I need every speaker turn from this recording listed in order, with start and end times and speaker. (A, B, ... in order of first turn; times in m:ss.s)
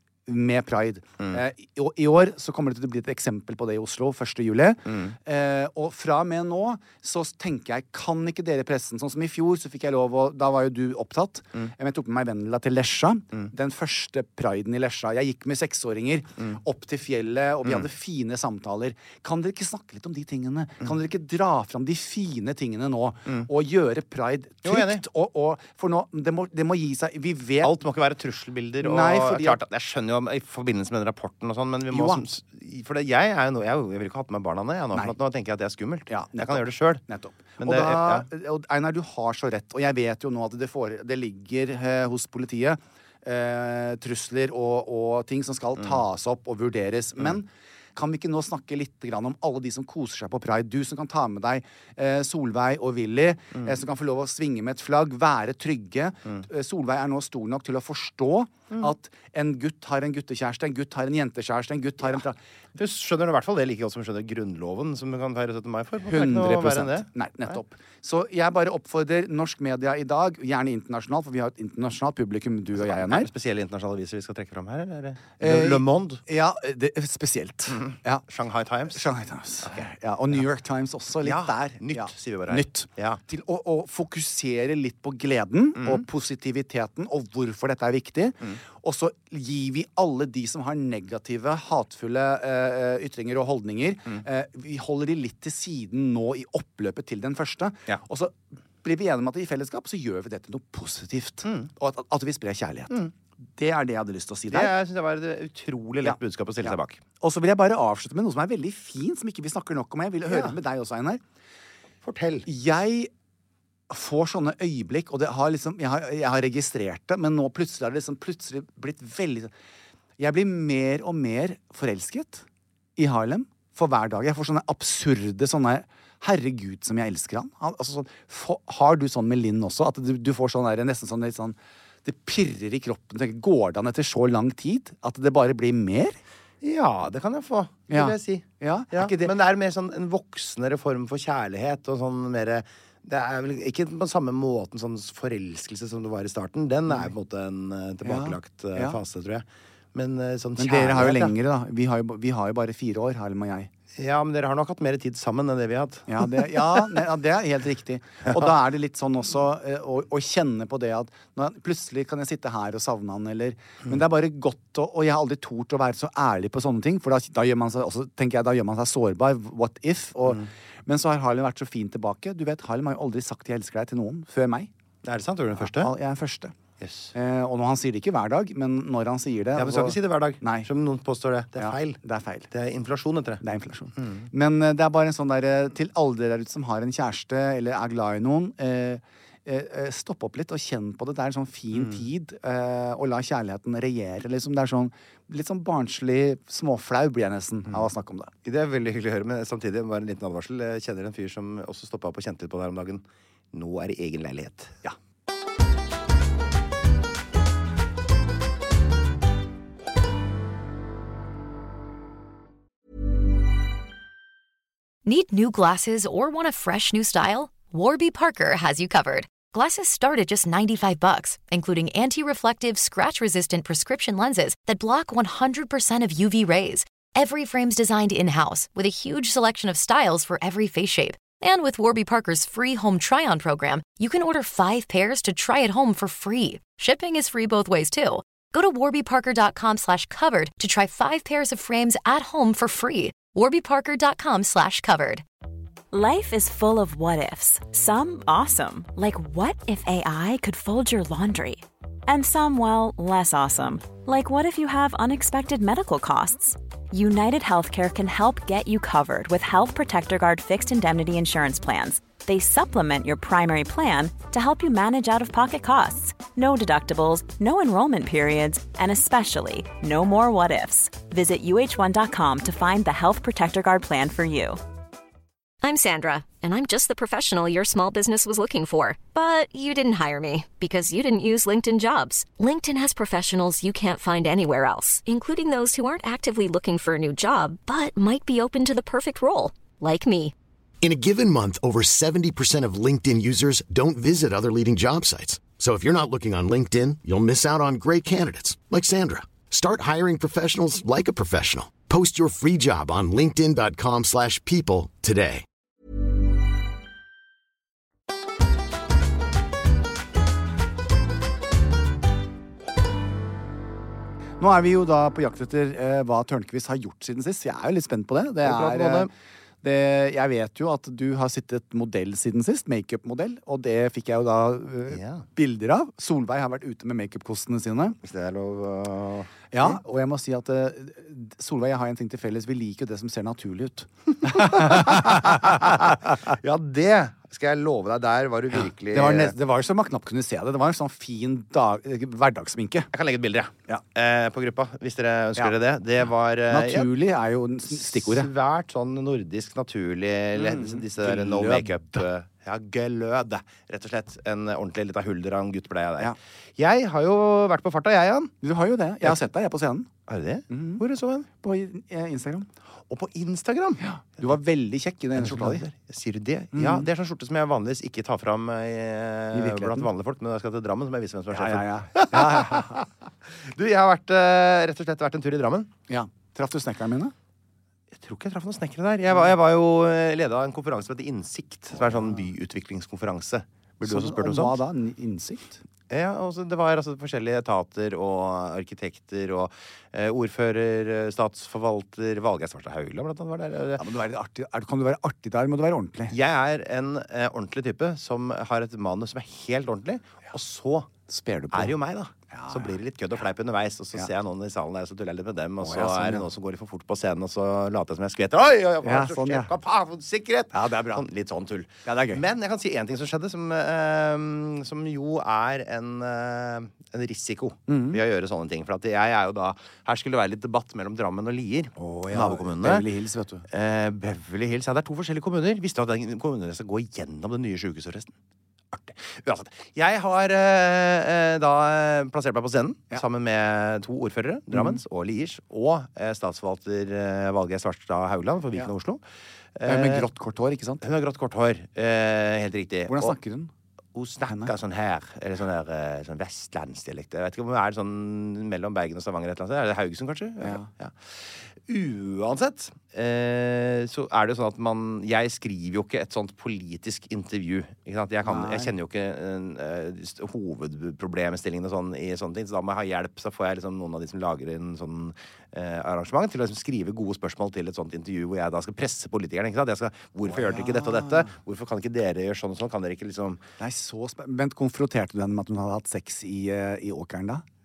0:00.3-0:27.7 A
0:04.9-0:05.1 B
0:24.6-0:25.0 B
0:27.6-0:37.0 B
0:28.8-0:29.6 A
0:31.9-0:32.2 A
0:36.1-1:02.4 A
0:37.6-0:38.3 B
1:02.8-1:07.6 B
1:06.0-1:13.3 A
1:12.8-1:16.2 B
1:15.4-1:18.2 A
1:17.7-1:19.0 B
1:18.9-1:43.0 A
1:21.2-1:23.2 B
1:25.8-1:26.0 B
1:41.4-1:41.7 B
1:43.6-1:44.7 A
1:44.5-1:47.0 B
1:46.0-1:51.2 A
1:50.3-1:50.6 B
1:52.0-1:52.5 B
1:52.5-1:53.1 A
1:53.9-1:59.5 A
2:00.2-2:02.4 A
2:03.0-2:16.2 A
2:16.6-2:31.3 B
2:17.9-2:19.3 A
2:28.0-2:29.0 A
2:30.6-2:33.7 A
2:33.9-2:36.4 B
2:36.1-2:54.7 A
2:55.0-2:55.9 B
2:55.6-2:56.5 A
2:56.8-2:57.1 B
2:57.1-3:00.7 A
2:59.6-3:02.0 B
3:01.6-3:02.5 A
3:02.5-3:03.4 B
3:03.4-3:18.3 A
3:04.0-3:04.3 B
3:11.7-3:12.0 B
3:18.4-3:24.8 B
3:35.0-4:05.2 C
4:05.9-4:34.6 D
4:35.6-4:50.3 E
4:50.8-5:05.4 F
5:14.4-5:19.1 A
5:18.4-5:19.1 B
5:19.6-5:28.0 A
5:24.9-5:25.3 B
5:28.0-5:29.8 B
5:29.5-5:36.1 A
5:34.2-5:39.4 B
5:38.5-5:42.9 A
5:42.9-5:46.9 B
5:46.5-5:48.3 A
5:47.7-5:58.3 B
5:50.4-5:52.0 A
5:58.4-5:59.9 A
6:00.1-6:01.3 B
6:00.5-6:00.8 A
6:01.4-6:02.5 A
6:02.9-6:03.8 B
6:03.8-6:05.6 A
6:05.1-6:15.7 B
6:06.5-6:06.9 A
6:09.3-6:09.9 A
6:11.3-6:12.8 A
6:15.9-6:17.1 A
6:17.9-6:24.6 B
6:21.9-6:22.2 A
6:23.8-6:25.6 A
6:25.9-6:33.8 B
6:33.8-6:36.1 A
6:36.1-6:40.9 B
6:41.1-6:41.8 A
6:41.5-7:02.9 B
6:42.3-6:42.8 A
6:45.6-6:46.3 A
6:48.8-6:49.5 A
6:50.5-6:51.0 A
6:51.8-6:52.2 A
6:57.7-6:58.0 A
7:01.8-7:03.5 A
7:03.5-7:08.1 B
7:08.7-7:19.0 B
7:19.6-7:20.1 B
7:19.6-7:20.8 A
7:20.8-7:23.2 B
7:22.9-7:23.5 A
7:23.9-7:53.4 B
7:24.3-7:24.5 A
7:30.4-7:30.7 A
7:38.2-7:38.7 A
7:50.3-7:51.3 A
7:53.6-7:57.4 A